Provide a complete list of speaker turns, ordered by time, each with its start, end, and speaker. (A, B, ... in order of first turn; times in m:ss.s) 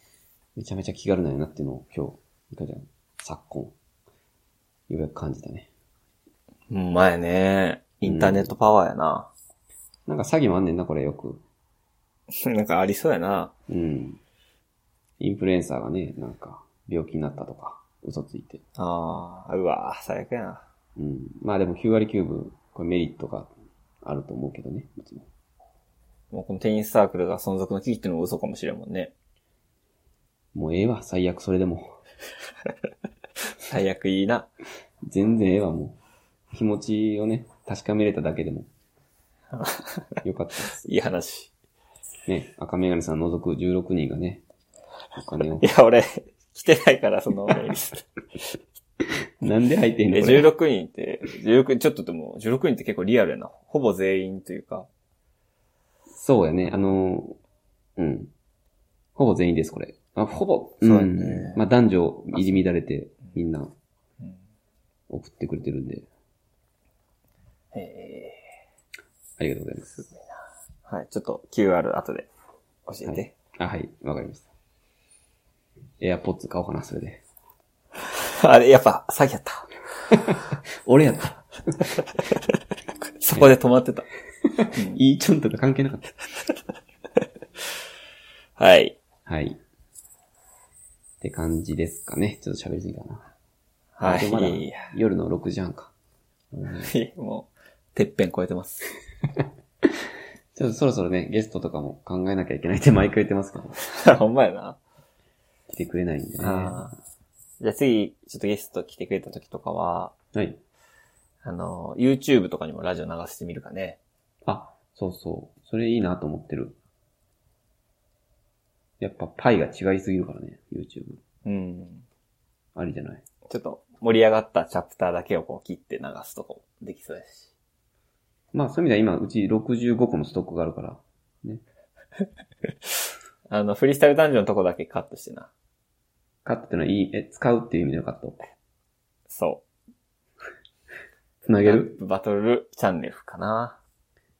0:00.6-0:03.7 A
0:04.9-0:05.7 A
0:06.7-0:09.3 B
0:08.0-0:08.5 A
0:10.1-0:11.4 A
0:12.4-0:13.5 B
0:13.7-0:14.2 A
0:15.2-0:18.6 A
0:18.8-0:20.6 B
0:21.0-0:23.5 A
0:24.0-0:25.3 A
0:26.3-0:29.1 B
0:30.5-0:32.0 A
0:33.5-0:34.5 B
0:35.0-0:36.0 A
0:36.5-0:38.7 A
0:39.5-0:40.2 B
0:40.2-0:40.9 A
0:40.7-0:41.5 B
0:42.3-0:44.4 A
0:45.2-0:45.7 A
0:45.6-0:48.0 B
0:49.4-0:50.5 A
0:50.1-0:54.9 B
0:56.1-0:57.4 A
0:58.0-0:58.3 A
0:59.2-1:03.7 A
1:00.8-1:01.6 B
1:02.3-1:02.6 B
1:05.1-1:06.1 A
1:07.7-1:08.4 B
1:09.4-1:10.1 A
1:09.9-1:10.2 B
1:10.8-1:12.3 B
1:12.9-1:13.3 B
1:13.0-1:14.5 A
1:16.0-1:17.2 A
1:18.0-1:19.7 B
1:20.1-1:21.9 A
1:23.2-1:24.1 B
1:24.4-1:26.1 A
1:24.7-1:25.0 B
1:28.6-1:29.0 B
1:29.2-1:29.6 A
1:31.2-1:33.3 A
1:34.0-1:34.9 B
1:34.0-1:35.9 A
1:36.5-1:36.9 A
1:36.8-1:38.9 B
1:40.5-1:43.8 A
1:43.8-1:44.8 B
1:45.7-1:46.8 A
1:46.4-1:47.0 B
1:47.6-1:50.1 B
1:50.3-1:50.6 A
1:51.4-1:54.0 B
1:54.4-1:56.8 A
1:59.0-2:01.2 A
2:01.4-2:02.0 B
2:02.7-2:03.2 A
2:03.5-2:07.5 B
2:08.5-2:11.6 A
2:13.5-2:15.5 B
2:16.4-2:18.4 A
2:19.3-2:19.6 B
2:21.4-2:21.9 A
2:21.6-2:23.8 B